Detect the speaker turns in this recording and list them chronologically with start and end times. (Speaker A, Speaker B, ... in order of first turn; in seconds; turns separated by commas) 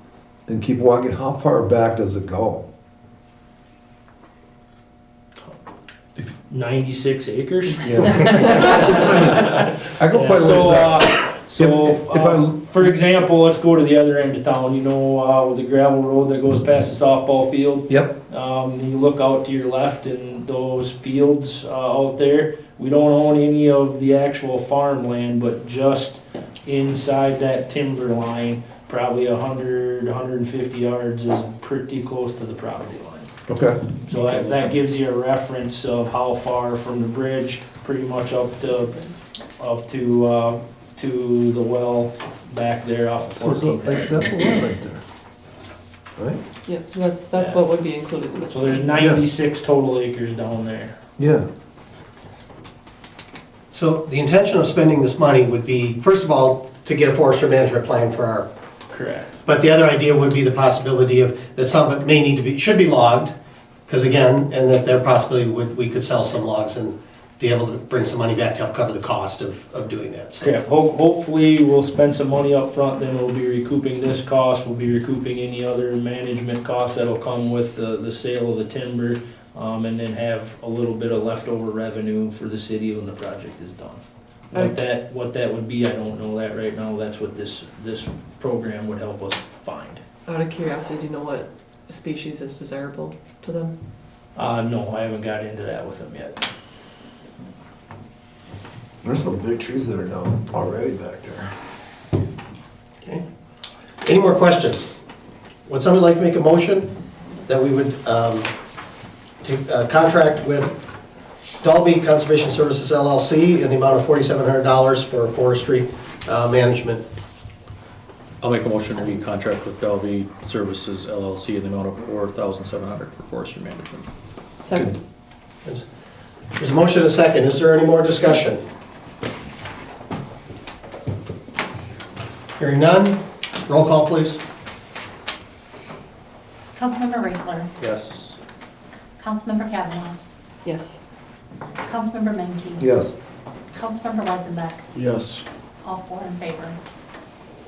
Speaker A: 0.5-2.6, Speaker B: 6.5-33.3, Speaker A: 7.8-12.6, Speaker A: 17.9-18.1, Speaker A: 33.5-33.8, Speaker B: 34.1-39.0, Speaker B: 39.6-44.3, Speaker A: 43.4-45.0, Speaker C: 46.6-49.1, Speaker B: 47.4-47.6, Speaker B: 48.5-51.0, Speaker A: 49.0-49.2, Speaker A: 51.2-51.5, Speaker D: 53.7-58.5, Speaker B: 58.9-59.4, Speaker D: 59.5-63.3, Speaker D: 63.9-70.5, Speaker B: 70.4-90.0, Speaker C: 90.3-93.8, Speaker B: 94.3-96.4, Speaker A: 99.0-101.5, Speaker D: 104.0-104.9, Speaker D: 105.7-106.9, Speaker D: 107.5-108.5, Speaker D: 109.4-110.8, Speaker D: 111.6-117.0, Speaker E: 118.4-124.1, Speaker C: 124.6-125.0, Speaker D: 126.6-128.6, Speaker D: 132.6-134.4, Speaker F: 136.8-137.7, Speaker E: 137.8-138.4, Speaker F: 139.2-140.2, Speaker C: 140.7-141.0, Speaker F: 141.8-142.9, Speaker A: 142.8-143.2, Speaker F: 143.7-144.8, Speaker E: 145.0-145.4, Speaker F: 145.8-146.8